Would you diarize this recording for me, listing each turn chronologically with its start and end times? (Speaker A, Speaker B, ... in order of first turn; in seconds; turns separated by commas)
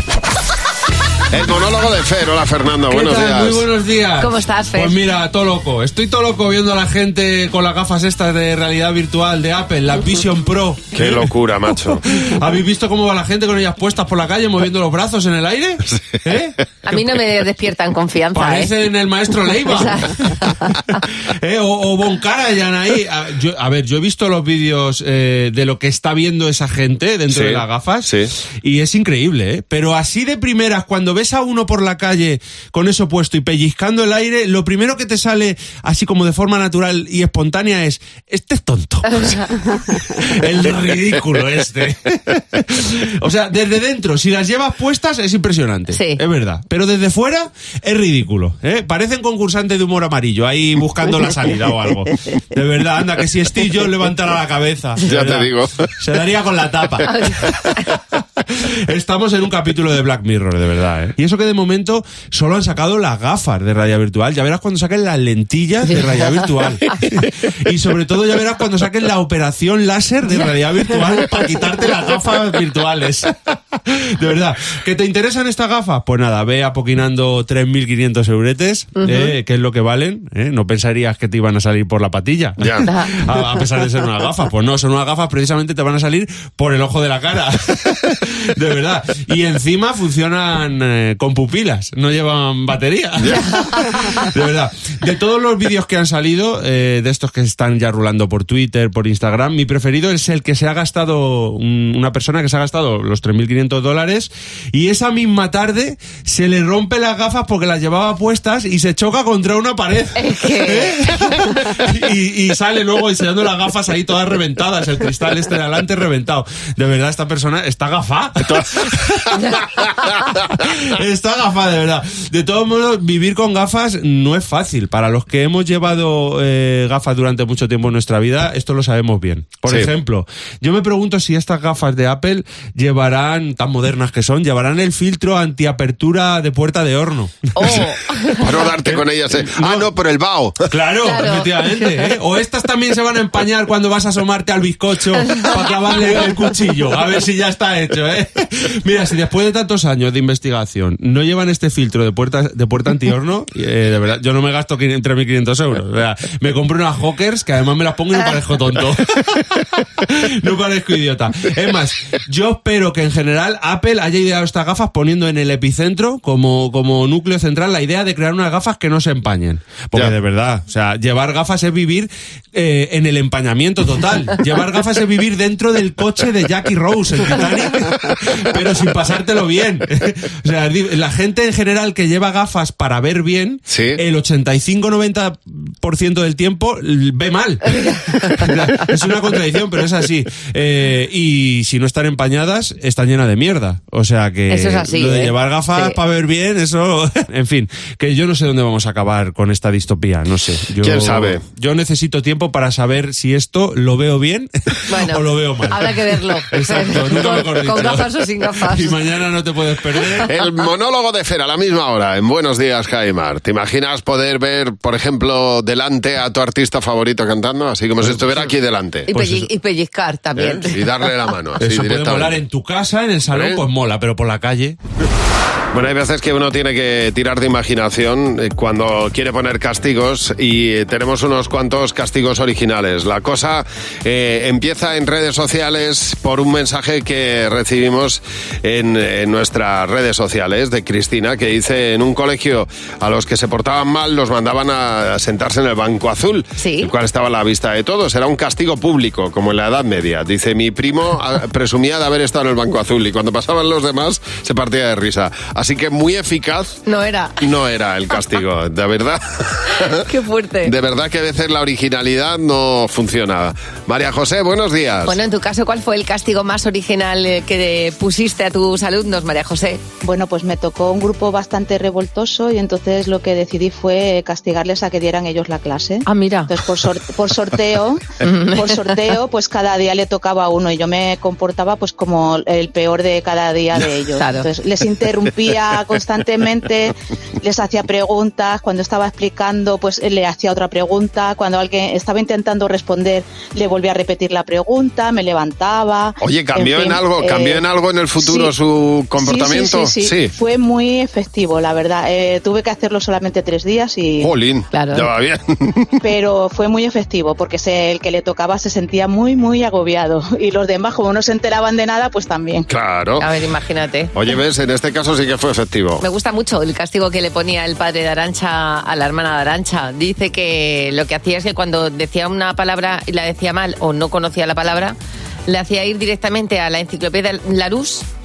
Speaker A: 1.3-3.7, Speaker B: 2.9-17.2, Speaker C: 4.2-5.0, Speaker A: 10.9-12.0, Speaker A: 15.9-16.2, Speaker C: 16.9-18.9, Speaker B: 18.3-20.4, Speaker C: 19.6-21.0, Speaker B: 21.3-28.1, Speaker A: 27.3-28.3, Speaker B: 28.6-39.4, Speaker C: 39.0-39.5, Speaker B: 39.9-57.5, Speaker C: 45.9-46.2, Speaker A: 55.0-55.9, Speaker C: 57.0-57.8, Speaker B: 58.9-73.3, Speaker B: 73.8-119.8, Speaker C: 79.0-79.3, Speaker A: 82.6-82.9, Speaker C: 93.5-94.0, Speaker C: 110.1-111.6, Speaker A: 118.5-119.3, Speaker B: 120.5-137.8, Speaker C: 137.5-138.5, Speaker A: 138.4-140.7, Speaker B: 138.8-139.8, Speaker B: 140.7-210.3, Speaker C: 141.0-141.9, Speaker C: 145.3-145.6, Speaker A: 183.7-184.0, Speaker C: 187.8-188.5, Speaker C: 194.5-196.0, Speaker A: 200.8-201.4, Speaker C: 204.9-209.0, Speaker A: 210.3-219.1, Speaker B: 218.1-218.3, Speaker B: 219.1-219.5, Speaker C: 219.1-221.1, Speaker A: 220.3-222.4, Speaker B: 221.6-224.8, Speaker A: 223.3-223.6, Speaker A: 225.7-256.8, Speaker C: 246.6-246.9, Speaker C: 256.9-257.4, Speaker A: 257.4-260.0, Speaker C: 259.7-260.7, Speaker A: 260.6-265.2, Speaker C: 265.1-269.8, Speaker D: 270.0-297.6, Speaker C: 276.0-276.5, Speaker C: 278.2-278.9, Speaker C: 284.2-284.4, Speaker A: 296.2-300.3, Speaker D: 298.2-298.5, Speaker D: 299.2-304.3, Speaker A: 304.2-306.0, Speaker C: 304.7-305.1, Speaker D: 306.0-312.7, Speaker A: 312.7-313.3, Speaker C: 313.2-314.1, Speaker A: 314.1-316.0, Speaker C: 316.0-324.9, Speaker C: 325.5-328.1